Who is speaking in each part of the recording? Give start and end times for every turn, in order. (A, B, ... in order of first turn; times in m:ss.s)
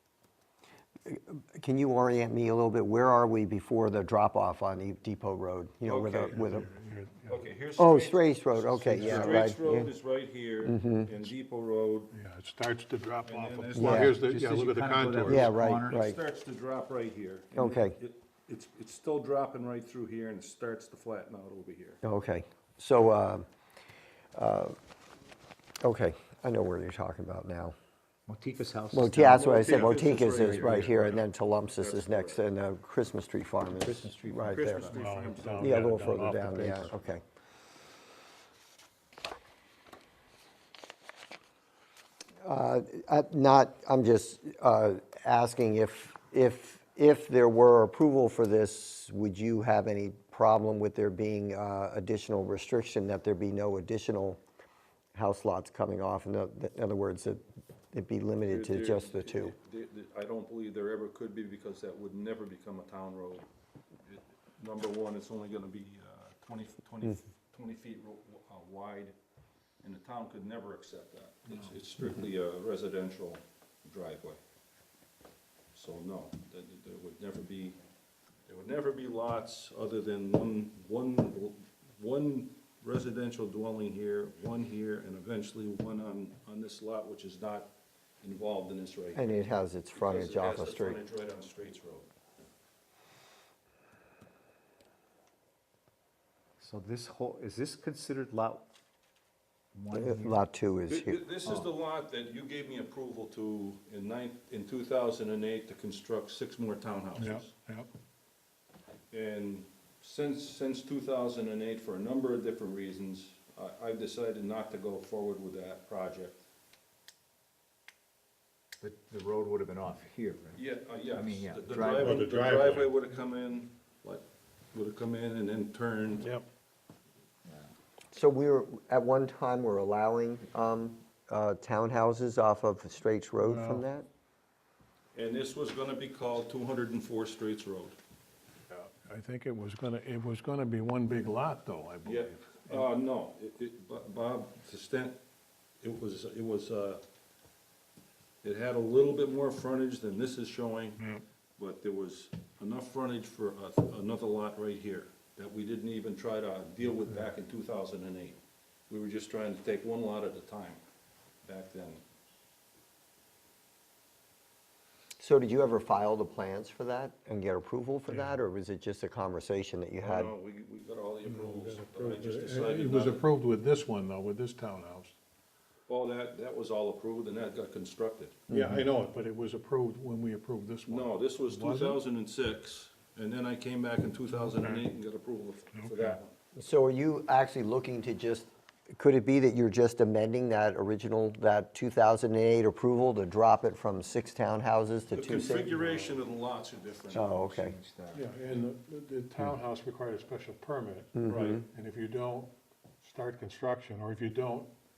0:01.0-0:06.7 A
0:05.8-0:06.4 B
0:06.3-0:07.4 C
0:07.3-0:12.1 B
0:07.8-0:09.9 A
0:08.7-0:09.5 C
0:10.6-0:11.1 A
0:12.1-0:15.5 C
0:13.2-0:14.2 B
0:13.7-0:14.2 A
0:14.1-0:16.0 D
0:15.2-0:16.2 A
0:15.3-0:22.0 B
0:17.5-0:18.0 A
0:22.0-0:23.4 A
0:24.3-0:24.8 A
0:25.8-0:27.7 A
0:28.3-0:30.8 D
0:28.9-0:34.8 A
0:29.3-0:32.4 B
0:33.8-0:35.5 D
0:34.5-0:36.8 B
0:34.9-0:36.9 C
0:35.6-0:37.2 A
0:36.0-0:37.0 D
0:42.4-0:54.4 A
0:55.1-0:59.5 A
0:58.5-1:03.5 B
1:04.0-1:09.1 B
1:09.8-1:14.4 B
1:15.7-1:17.8 B
1:18.5-1:29.4 B
1:29.1-1:31.0 A
1:29.9-1:32.1 B
1:36.6-1:38.6 D
1:39.7-1:40.4 D
1:39.9-1:41.2 A
1:40.9-1:47.5 B
1:41.4-1:41.7 D
1:47.2-1:47.9 C
1:49.1-1:56.4 B
1:58.8-2:02.3 D
2:00.5-2:06.3 B
2:02.0-2:02.9 C
2:07.4-2:07.7 D
2:08.1-2:14.0 A
2:13.4-2:13.8 C
2:15.1-2:18.0 B
2:18.7-2:22.8 C
2:22.0-2:25.2 B
2:25.8-2:27.0 B
2:28.4-2:31.0 B
2:31.6-2:38.4 B
2:38.9-2:40.8 B
2:41.4-2:42.0 B
2:45.2-2:50.3 A
2:50.0-2:53.2 B
2:51.2-2:55.1 C
2:55.9-2:58.4 B
2:58.5-2:58.8 A
2:58.5-3:02.0 C
3:00.9-3:06.4 B
3:04.6-3:04.8 C
3:05.8-3:06.2 C
3:06.5-3:16.0 A
3:15.1-3:17.2 B
3:17.1-3:17.7 A
3:17.1-3:18.2 D
3:18.1-3:24.7 C
3:21.1-3:21.6 A
3:21.3-3:21.6 B